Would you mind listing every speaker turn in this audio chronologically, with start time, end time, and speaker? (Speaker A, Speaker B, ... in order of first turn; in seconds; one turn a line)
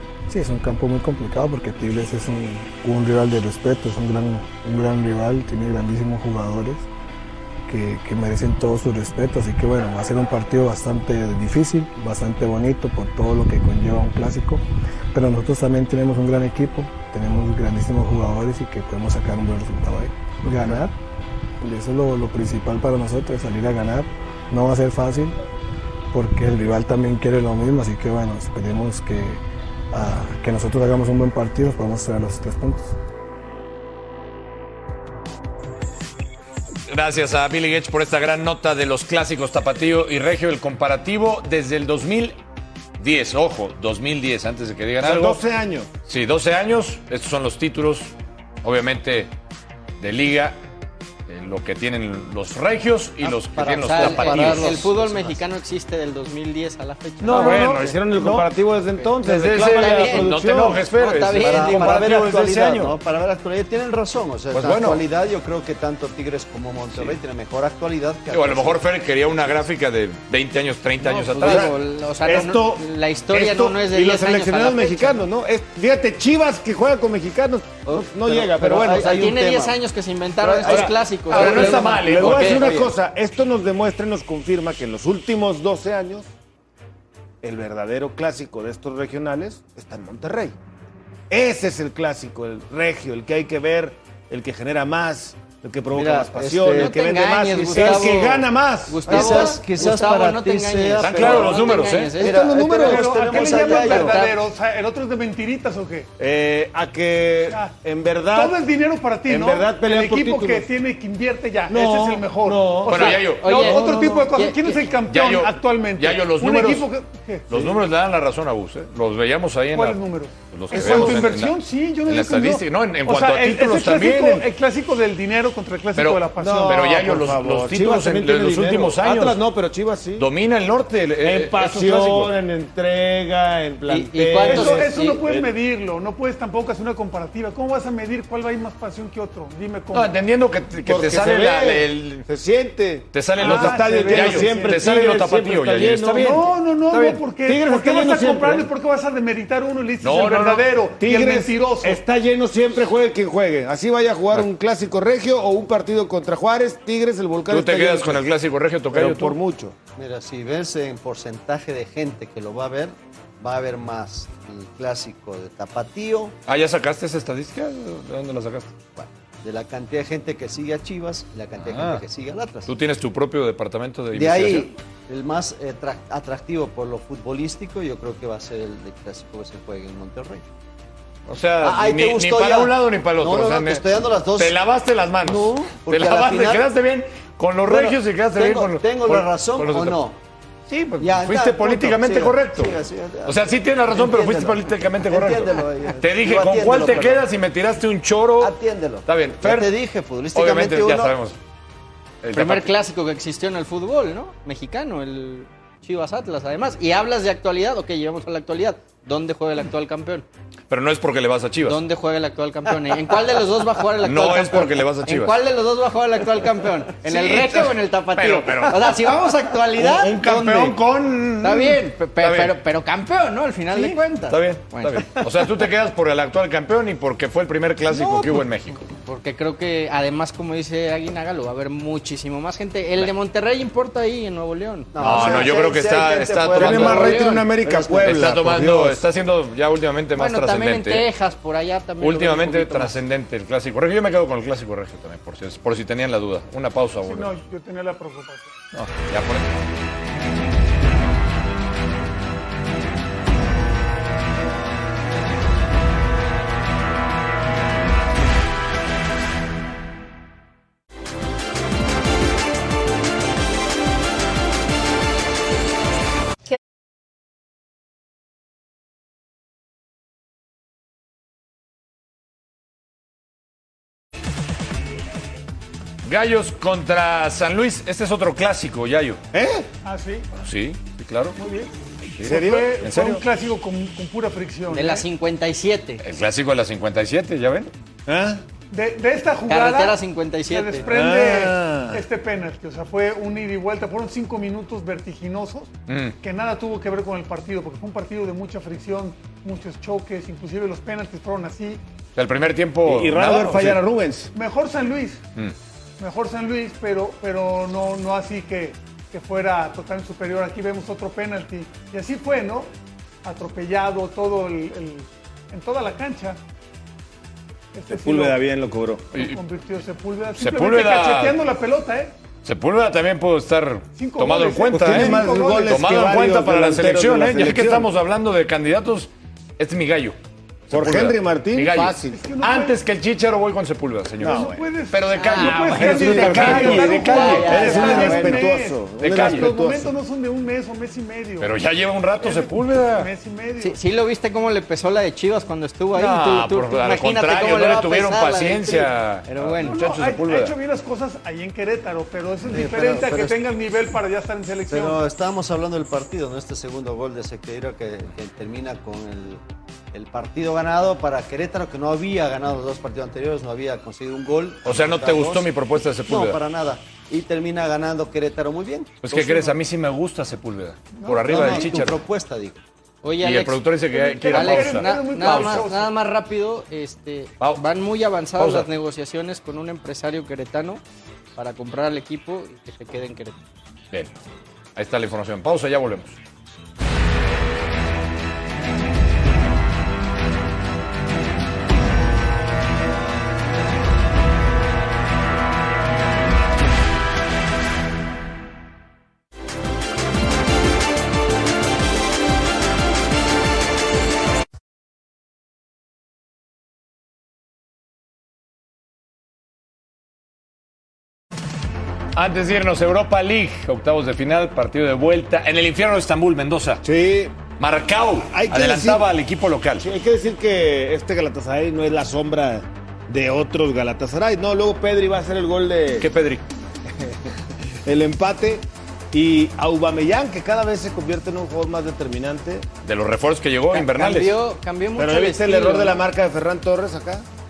Speaker A: 0.3-6.9
Speaker A: 7.7-20.9
Speaker A: 21.6-25.3
Speaker A: 26.1-32.9
Speaker B: 36.9-42.4
Speaker B: 43.0-45.4
Speaker C: 45.0-45.9
Speaker B: 46.0-49.3
Speaker B: 50.0-50.6
Speaker B: 51.3-54.9
Speaker D: 53.2-55.4
Speaker E: 53.8-58.0
Speaker B: 57.2-58.5
Speaker C: 57.2-60.8
Speaker E: 58.9-60.3
Speaker B: 59.2-63.0
Speaker E: 60.9-62.0
Speaker D: 61.4-68.8
Speaker B: 64.5-65.0
Speaker B: 68.3-71.7
Speaker E: 71.0-75.2
Speaker C: 71.4-79.1
Speaker D: 77.9-79.8
Speaker E: 78.9-82.9
Speaker C: 80.4-86.3
Speaker B: 80.7-82.8
Speaker C: 87.4-90.5
Speaker C: 91.3-99.6
Speaker D: 95.9-96.9
Speaker E: 96.6-102.4
Speaker D: 97.7-98.1
Speaker D: 99.1-104.2
Speaker B: 101.0-102.2
Speaker C: 102.2-104.1
Speaker F: 102.8-106.1
Speaker E: 103.4-104.4
Speaker C: 106.2-108.6
Speaker F: 108.3-117.5
Speaker C: 109.3-110.6
Speaker C: 111.7-114.3
Speaker B: 112.9-113.6
Speaker E: 113.2-114.8
Speaker B: 115.1-116.9
Speaker B: 117.5-124.5
Speaker F: 119.7-127.0
Speaker C: 120.7-121.4
Speaker B: 126.0-129.4
Speaker C: 126.4-130.3
Speaker B: 130.2-132.3
Speaker C: 131.2-135.5
Speaker E: 133.9-135.2
Speaker F: 134.4-140.1
Speaker B: 139.9-142.3
Speaker C: 140.8-146.4
Speaker B: 143.1-147.2
Speaker F: 143.4-144.8
Speaker F: 146.1-152.0
Speaker C: 147.4-148.7
Speaker B: 150.0-150.7
Speaker C: 151.0-158.2
Speaker B: 157.5-159.4
Speaker C: 158.9-159.8
Speaker D: 159.9-166.3
Speaker B: 166.5-168.7
Speaker D: 168.9-172.7
Speaker B: 171.6-172.0
Speaker B: 172.7-174.7
Speaker D: 174.1-180.5
Speaker B: 181.3-190.0
Speaker D: 181.6-184.6
Speaker D: 185.2-186.7
Speaker D: 187.6-190.2
Speaker B: 190.7-199.7
Speaker D: 191.0-197.3
Speaker D: 198.4-201.1
Speaker B: 200.3-201.4
Speaker B: 202.2-202.7
Speaker E: 202.3-210.2
Speaker B: 210.7-211.8
Speaker E: 211.6-220.8
Speaker B: 214.0-215.4
Speaker B: 217.0-219.0
Speaker B: 219.8-222.5
Speaker E: 221.4-225.1
Speaker B: 223.7-228.9
Speaker E: 227.9-228.4
Speaker E: 229.0-235.4
Speaker D: 234.9-238.3
Speaker B: 235.0-237.1
Speaker C: 236.6-239.0
Speaker E: 236.6-237.5
Speaker B: 238.0-241.1
Speaker E: 240.2-243.0
Speaker B: 242.0-247.3
Speaker F: 246.9-248.6
Speaker B: 248.7-249.5
Speaker B: 276.0-279.2
Speaker C: 279.3-279.7
Speaker F: 279.8-280.3
Speaker B: 280.4-281.4
Speaker F: 281.4-281.7
Speaker B: 282.2-283.2
Speaker C: 282.2-282.8
Speaker F: 282.2-285.1
Speaker E: 284.7-286.0
Speaker B: 286.0-287.7
Speaker C: 288.1-288.4
Speaker F: 288.7-290.0
Speaker E: 289.5-290.9
Speaker F: 290.5-301.8
Speaker C: 290.9-292.0
Speaker B: 295.9-296.1
Speaker B: 302.1-303.8
Speaker C: 302.9-304.3
Speaker F: 304.3-305.2
Speaker F: 306.0-312.7
Speaker F: 313.2-316.4
Speaker F: 317.7-318.4
Speaker C: 317.9-319.1
Speaker F: 319.1-322.1
Speaker B: 320.4-321.4
Speaker B: 322.4-330.2
Speaker F: 323.9-325.8
Speaker C: 324.7-327.9
Speaker B: 330.7-338.0
Speaker C: 330.7-332.2
Speaker F: 332.0-332.8
Speaker F: 334.2-341.5
Speaker C: 334.2-334.5
Speaker E: 335.1-338.4
Speaker C: 335.9-339.9
Speaker B: 339.0-339.5
Speaker B: 341.4-343.1
Speaker F: 342.2-343.8
Speaker E: 343.6-349.8
Speaker B: 345.9-350.5
Speaker F: 349.6-355.0
Speaker D: 352.4-353.4
Speaker D: 354.7-369.6
Speaker B: 364.6-366.4
Speaker B: 369.0-372.0
Speaker F: 370.9-371.8
Speaker D: 371.3-372.6
Speaker E: 373.0-373.6
Speaker B: 373.2-375.7
Speaker F: 373.9-375.9
Speaker E: 374.3-380.8
Speaker B: 378.4-378.7
Speaker E: 381.4-383.4
Speaker B: 384.8-386.2
Speaker B: 412.1-416.8
Speaker C: 416.8-417.4
Speaker B: 417.6-419.9
Speaker C: 418.3-419.1
Speaker C: 419.8-426.1
Speaker B: 426.0-426.4
Speaker C: 427.8-432.7
Speaker B: 432.8-434.4
Speaker E: 433.7-436.0
Speaker C: 434.9-437.2